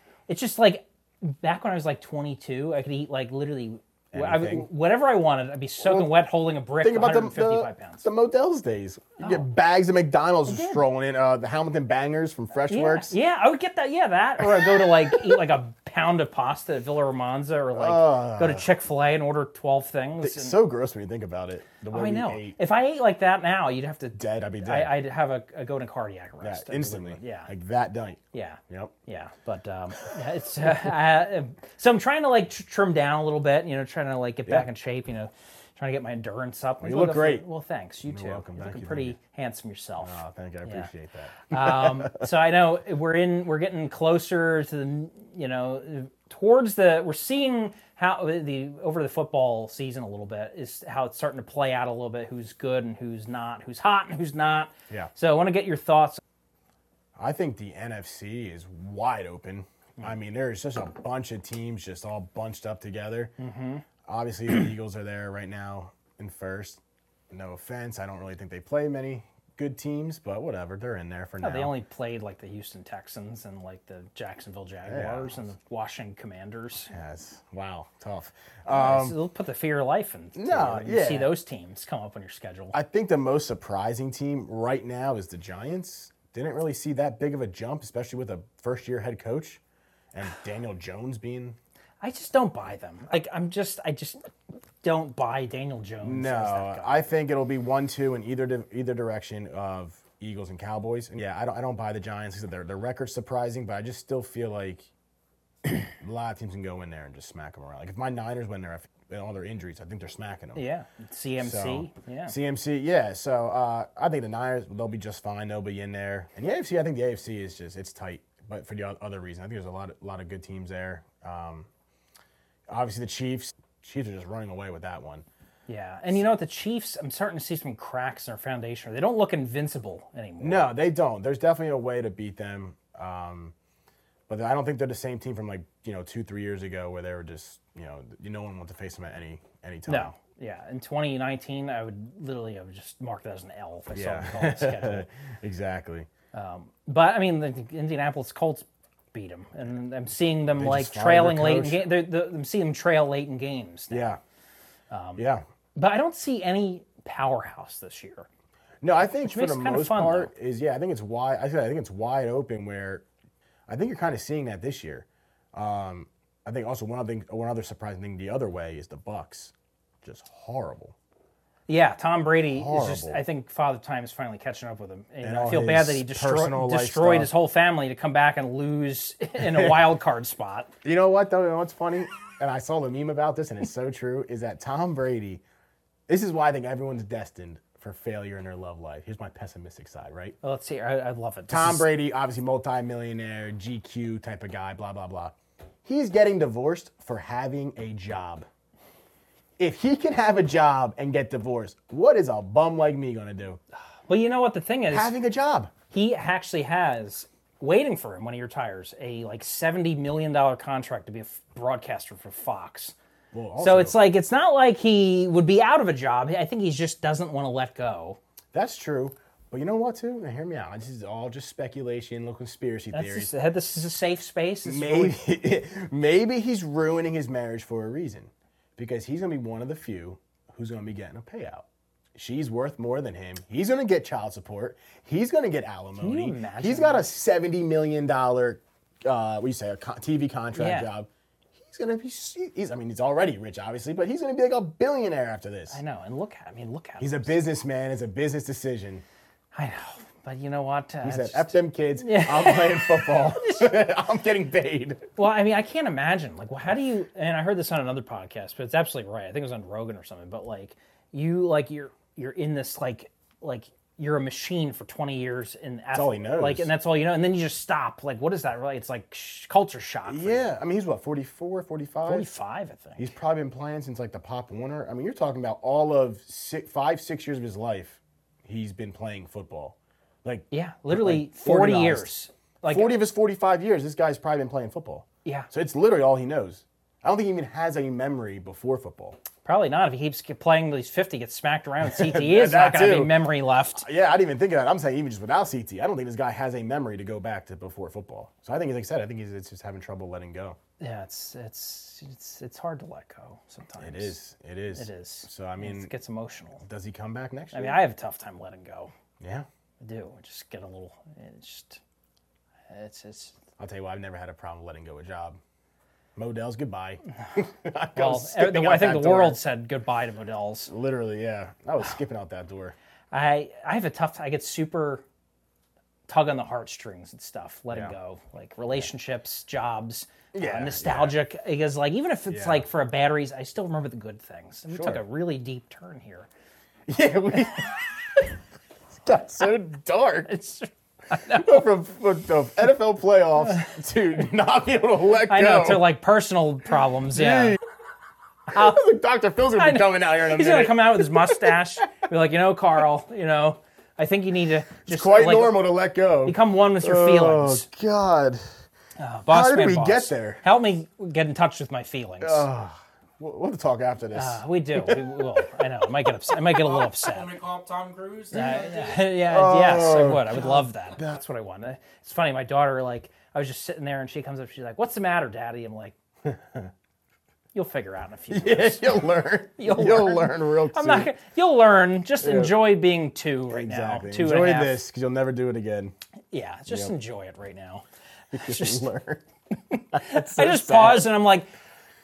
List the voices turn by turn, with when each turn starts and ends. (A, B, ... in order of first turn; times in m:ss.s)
0:00.3-0:08.1 A
0:04.1-0:04.7 B
0:05.8-0:06.1 B
0:06.8-0:13.2 B
0:09.2-0:09.5 A
0:10.5-0:10.8 A
0:12.7-0:20.6 A
0:14.4-0:15.4 B
0:17.8-0:18.7 B
0:20.2-0:22.6 B
0:21.9-0:27.5 A
0:24.2-0:25.0 B
0:26.4-0:28.9 B
0:28.3-0:40.9 A
0:36.8-0:37.4 B
0:38.1-0:39.2 B
0:40.0-0:42.3 B
0:41.5-0:56.2 A
0:57.2-1:03.3 B
1:03.4-1:03.8 A
1:04.1-1:06.8 B
1:07.3-1:11.7 B
1:11.4-1:16.9 A
1:14.9-1:15.5 B
1:16.9-1:19.2 B
1:18.7-1:22.8 A
1:20.4-1:21.3 B
1:22.7-1:29.6 B
1:30.1-1:31.6 B
1:32.0-1:34.2 A
1:34.8-1:37.1 A
1:36.0-1:44.9 B
1:45.6-1:50.6 B
1:50.6-1:52.4 A
1:51.4-2:01.7 B
2:02.7-2:05.2 B
2:05.7-2:10.7 A
2:10.4-2:13.5 B
2:14.3-2:20.1 B
2:19.9-2:25.1 A
2:23.9-2:26.1 B
2:26.3-2:34.1 A
2:30.6-2:31.9 B
2:33.9-2:34.2 B
2:34.9-2:35.2 A
2:35.2-2:35.4 B
2:35.8-2:38.3 A
2:38.8-2:43.0 B
2:39.2-2:40.3 A
2:43.7-2:51.0 B
2:51.7-3:00.7 A
2:52.5-2:53.2 B
2:55.2-2:57.3 B
2:59.4-2:59.8 B
3:00.8-3:05.4 B
3:06.1-3:10.4 B
3:10.4-3:11.9 A
3:11.5-3:18.5 B
3:19.6-3:23.6 B
3:24.1-3:25.1 A
3:24.9-3:25.7 B
3:25.9-3:33.0 A
3:33.3-3:34.0 B
3:33.6-3:38.2 A
3:38.5-3:43.3 B
3:42.9-3:45.2 A
3:44.6-4:01.1 B
3:56.0-3:57.1 A
4:00.6-4:00.9 A
4:01.6-4:05.8 B
4:05.7-4:07.3 A
4:07.0-4:09.0 B
4:09.5-4:13.7 A
4:11.0-4:15.1 B
4:15.2-4:30.5 A
4:25.9-4:26.7 B
4:30.1-4:32.3 B
4:32.0-4:33.1 A
4:33.0-4:42.1 B
4:40.5-4:43.0 A
4:42.7-4:49.2 B
4:49.4-4:53.8 A
4:51.8-5:00.6 B
5:00.8-5:04.2 A
5:03.8-5:05.9 B
5:04.8-5:06.6 A
5:06.6-5:07.8 B
5:07.5-5:08.9 A
5:09.2-5:09.5 B
5:09.8-5:11.8 A
5:12.7-5:13.4 A
5:13.6-5:15.4 B
5:16.2-5:19.4 B
5:18.0-5:20.7 A
5:20.7-5:22.8 B
5:23.1-5:25.0 A
5:26.1-5:36.3 A
5:30.3-5:31.2 B
5:32.3-5:32.7 B
5:34.7-5:35.0 B
5:36.9-5:38.4 B
5:38.9-5:40.3 B
5:40.3-5:41.6 A
5:41.2-5:45.9 B
5:45.2-5:47.6 A
5:47.1-5:47.6 B
5:48.5-5:51.6 B
5:48.5-5:48.8 A
5:49.6-5:55.6 A
5:54.9-5:58.4 B
5:56.2-5:57.7 A
5:59.0-6:02.5 A
5:59.3-6:00.4 B
6:02.2-6:05.3 B
6:04.2-6:07.3 A
6:06.7-6:09.1 C
6:08.3-6:16.0 A
6:09.2-6:11.2 B
6:16.2-6:16.7 B
6:17.5-6:19.1 A
6:18.3-6:21.1 B
6:19.6-6:24.8 A
6:22.2-6:22.6 B
6:23.5-6:26.0 B
6:26.3-6:27.8 A
6:26.7-6:26.9 B
6:28.3-6:29.2 B
6:28.4-6:28.9 A
6:29.7-6:31.5 A
6:29.9-6:31.2 B